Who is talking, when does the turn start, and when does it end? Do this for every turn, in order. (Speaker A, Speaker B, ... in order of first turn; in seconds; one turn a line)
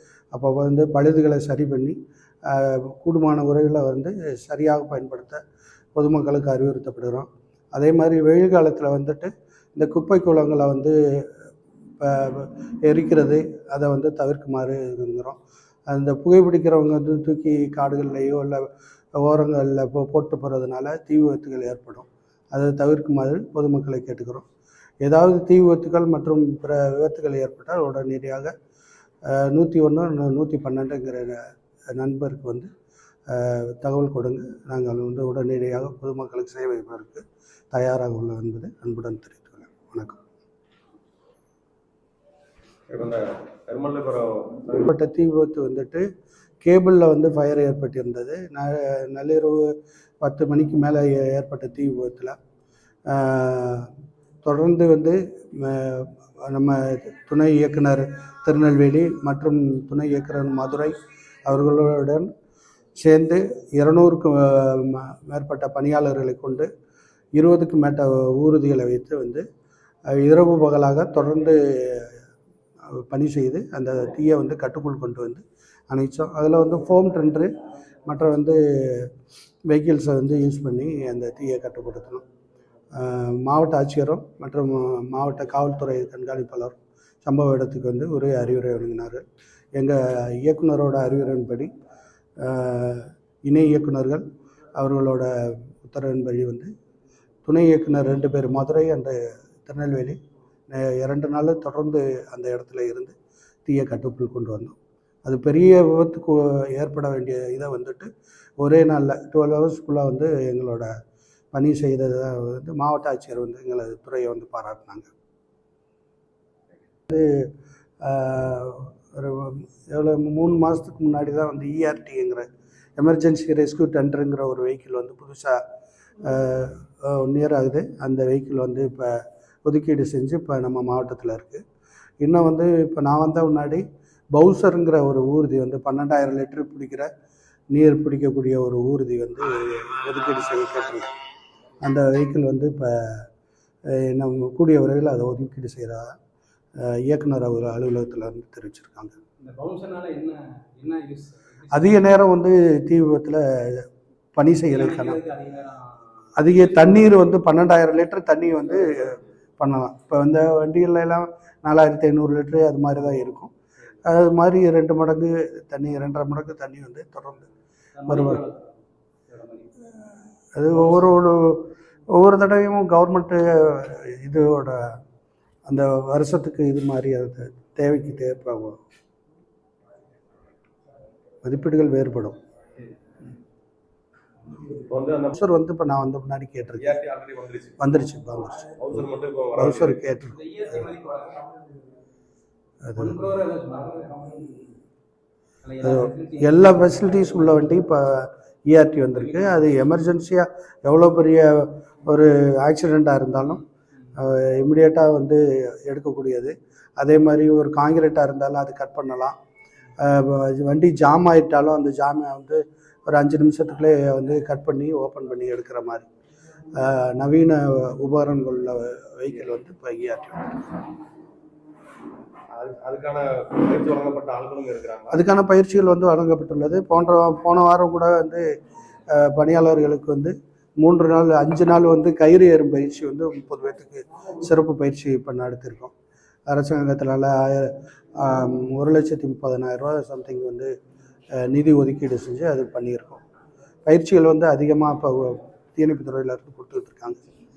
Speaker A: 0.3-5.4
Speaker A: 6.0-11.4
Speaker A: 12.0-15.4
Speaker A: 15.9-24.4
Speaker A: 25.0-28.5
Speaker A: 29.3-31.4
Speaker A: 31.9-32.7
Speaker A: 33.3-40.2
Speaker B: 42.9-44.9
Speaker A: 44.9-46.0
Speaker A: 46.6-52.4
Speaker A: 53.1-53.9
Speaker A: 54.4-62.3
Speaker A: 63.0-66.7
Speaker A: 67.3-69.4
Speaker A: 70.1-72.2
Speaker A: 72.9-77.5
Speaker A: 78.1-79.1
Speaker A: 79.7-82.2
Speaker A: 82.9-89.2
Speaker A: 89.7-91.7
Speaker A: 92.4-94.2
Speaker A: 94.8-96.7
Speaker A: 97.5-100.2
Speaker A: 100.7-103.1
Speaker A: 103.7-108.1
Speaker A: 108.6-110.9
Speaker A: 111.5-115.1
Speaker A: 117.1-117.5
Speaker A: 118.0-122.5
Speaker A: 123.0-125.6
Speaker A: 126.2-131.6
Speaker A: 132.2-137.1
Speaker A: 137.7-141.2
Speaker A: 141.8-143.2
Speaker A: 143.9-146.1
Speaker A: 146.8-149.1
Speaker C: 149.4-151.9
Speaker A: 151.7-155.2
Speaker C: 154.7-156.9
Speaker A: 156.4-163.5
Speaker A: 164.0-167.5
Speaker C: 168.0-168.6
Speaker A: 168.1-168.4
Speaker C: 169.3-169.7
Speaker A: 170.5-175.0
Speaker A: 175.7-178.8
Speaker A: 181.4-182.4
Speaker B: 184.7-185.3
Speaker A: 185.3-187.0
Speaker B: 186.8-187.8
Speaker A: 187.8-188.7
Speaker B: 188.8-190.0
Speaker A: 189.6-190.4
Speaker C: 190.3-191.5
Speaker A: 192.8-193.2
Speaker C: 192.9-194.7
Speaker C: 195.6-196.6
Speaker A: 195.8-209.3
Speaker A: 210.0-216.1
Speaker A: 216.7-220.7
Speaker B: 222.5-225.2
Speaker A: 225.1-228.4
Speaker A: 229.1-235.9
Speaker A: 236.5-240.7
Speaker A: 241.4-243.2
Speaker A: 243.8-247.2